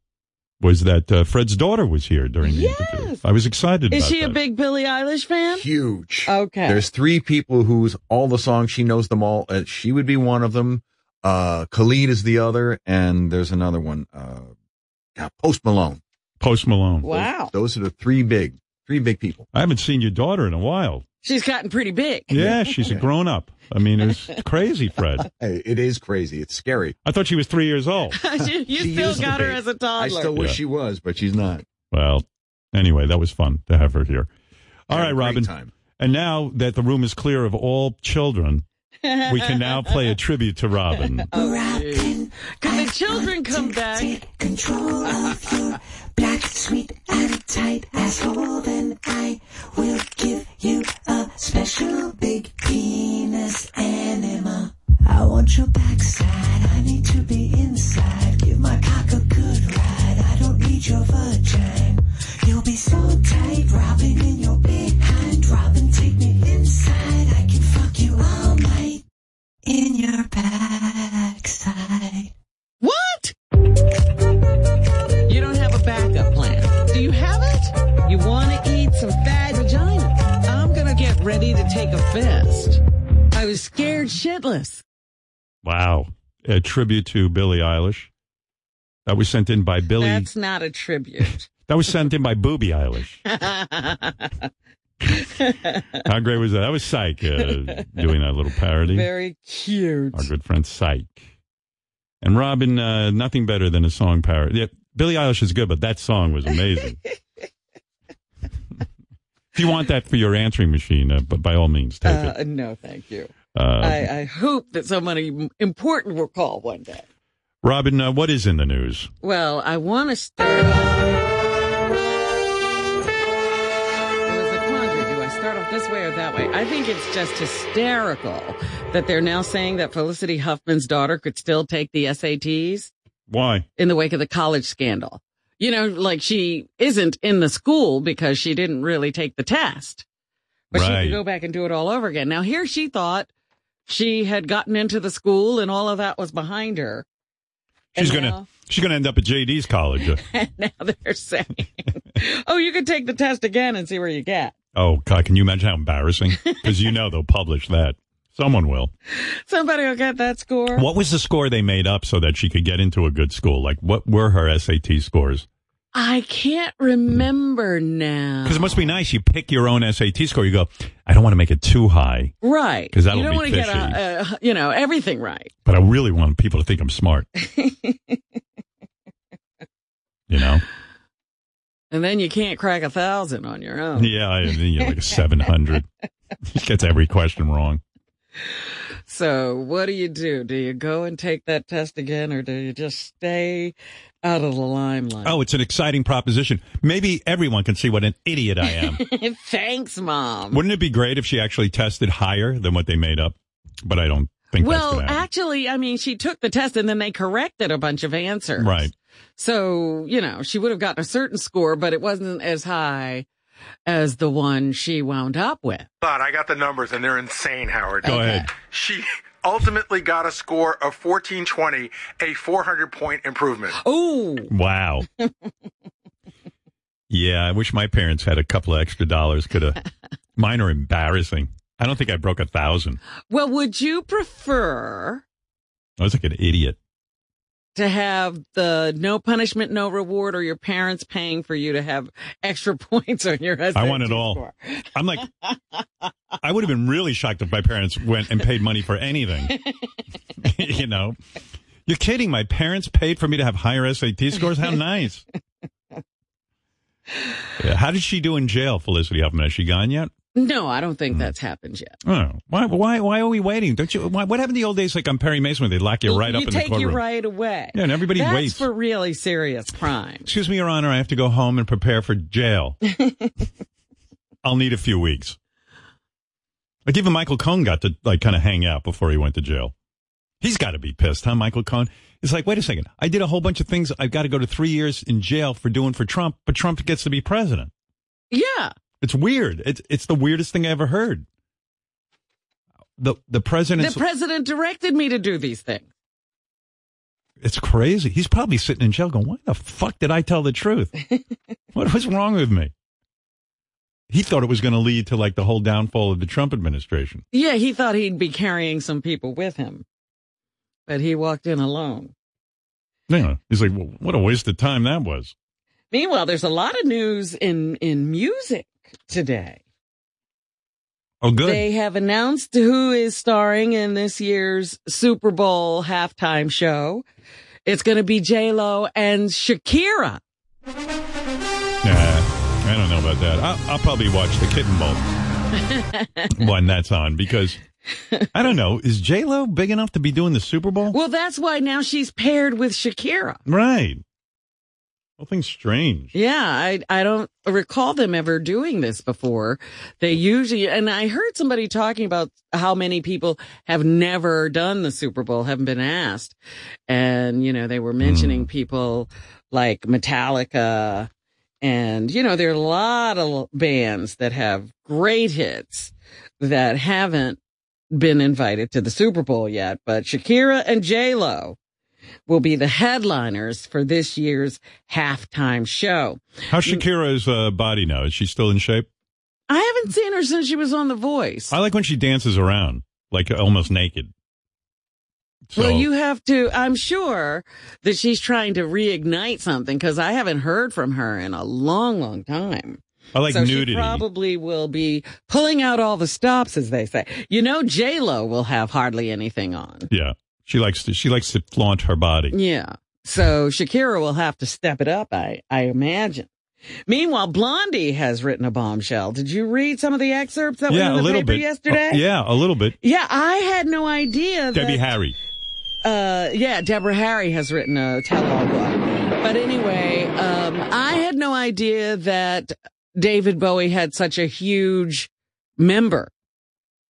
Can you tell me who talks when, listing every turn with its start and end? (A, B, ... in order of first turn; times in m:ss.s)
0:00.6-0:04.4 A
0:02.4-0:03.2 B
0:03.9-0:05.7 B
0:05.5-0:14.5 C
0:06.3-0:06.9 B
0:15.2-0:16.0 C
0:16.4-0:17.2 A
0:17.0-0:17.5 B
0:17.2-0:19.5 C
0:19.5-0:21.0 A
0:21.2-0:22.6 B
0:22.3-0:25.3 A
0:25.3-0:27.0 C
0:27.0-0:28.2 A
0:28.2-0:30.4 B
0:28.4-0:31.6 C
0:31.9-0:34.3 A
0:34.9-0:38.6 A
0:34.9-0:35.7 C
0:39.0-0:39.8 B
0:39.3-0:41.3 A
0:41.3-0:44.2 B
0:41.3-1:09.0 D
1:09.6-1:12.3 D
1:12.8-1:13.3 B
1:15.3-1:22.8 B
1:23.3-1:24.8 B
1:25.6-1:28.1 A
1:29.1-1:30.3 A
1:30.0-1:31.5 B
1:31.7-1:33.2 A
1:33.3-1:34.5 B
1:35.1-1:36.0 B
1:36.0-1:39.1 A
1:38.8-1:40.3 B
1:40.1-1:41.2 A
1:42.2-1:47.0 A
1:49.6-1:52.3 A
1:52.0-1:57.0 B
1:53.5-1:54.1 A
1:57.6-1:59.1 A
1:59.2-2:01.1 B
2:04.3-2:12.9 B
2:13.3-2:13.7 A
2:13.8-2:20.0 B
2:20.7-2:23.3 B
2:20.7-2:21.2 A
2:23.9-2:27.0 B
2:28.0-2:28.5 B
2:28.0-2:30.2 A
2:30.2-2:34.6 B
2:34.8-2:38.9 A
2:39.2-2:40.9 B
2:40.8-2:45.5 A
2:45.9-2:49.0 B
2:48.4-2:52.4 A
2:52.4-2:55.5 B
2:52.9-2:54.0 A
2:55.6-2:57.3 A
2:57.4-2:58.2 B
3:00.3-3:00.6 A
3:01.9-3:04.1 B
3:04.0-3:05.9 A
3:06.5-3:07.8 A
3:09.1-3:15.4 B
3:15.2-3:19.0 A
3:18.7-3:20.6 B
3:20.5-3:23.4 A
3:23.9-3:25.2 A
3:24.6-3:28.8 B
3:28.6-3:28.9 A
3:29.4-3:33.2 B
3:33.9-3:35.9 B
3:36.0-3:43.8 E
3:38.0-3:38.5 A
3:38.0-3:38.5 B
3:43.8-3:44.5 B
3:44.5-3:45.1 A
3:47.1-3:49.8 A
3:50.4-3:53.0 A
3:53.3-3:55.2 B
3:56.0-3:56.8 A
3:57.8-4:05.6 B
4:03.8-4:04.4 A
4:05.0-4:05.3 A
4:06.4-4:09.6 A
4:09.5-4:09.8 B
4:10.4-4:11.2 A
4:11.9-4:15.2 A
4:17.6-4:20.1 A
4:20.4-4:21.9 B
4:22.0-4:27.0 A
4:26.1-4:30.3 B
4:27.7-4:28.7 A
4:30.3-4:32.8 A
4:33.0-4:33.3 B
4:34.4-4:35.4 A
4:36.9-4:39.7 A
4:40.4-4:47.7 A
4:48.3-4:48.7 B
4:49.0-4:51.3 A
4:53.0-4:54.0 A
4:53.8-4:55.9 B
4:57.4-5:00.9 A
5:01.7-5:02.7 A
5:04.1-5:07.2 A
5:07.3-5:09.8 B
5:10.9-5:12.1 B
5:13.1-5:15.3 A
5:15.9-5:19.6 B
5:21.2-5:21.6 A
5:21.4-5:27.0 B
5:27.7-5:30.2 B
5:31.8-5:35.0 A
5:35.6-5:36.3 B
5:36.4-5:37.6 A
5:38.0-5:38.3 B
5:38.3-5:41.0 A
5:40.9-5:43.4 B
5:43.5-5:44.0 A
5:45.2-5:46.1 A
5:46.1-5:56.4 B
5:56.9-6:01.1 B
5:58.0-5:58.5 A
6:01.6-6:07.4 B
6:07.9-6:11.6 B
6:12.3-6:16.8 B
6:16.5-6:18.9 A
6:19.5-6:21.5 B
6:21.5-6:24.1 A
6:25.5-6:25.9 A
6:25.6-6:39.9 B
6:33.1-6:34.0 A
6:39.9-6:42.4 A
6:42.3-6:46.3 B
6:46.9-6:52.0 B
6:50.7-6:52.8 A
6:52.8-6:54.8 B
6:54.5-6:55.2 A
6:55.8-7:06.1 B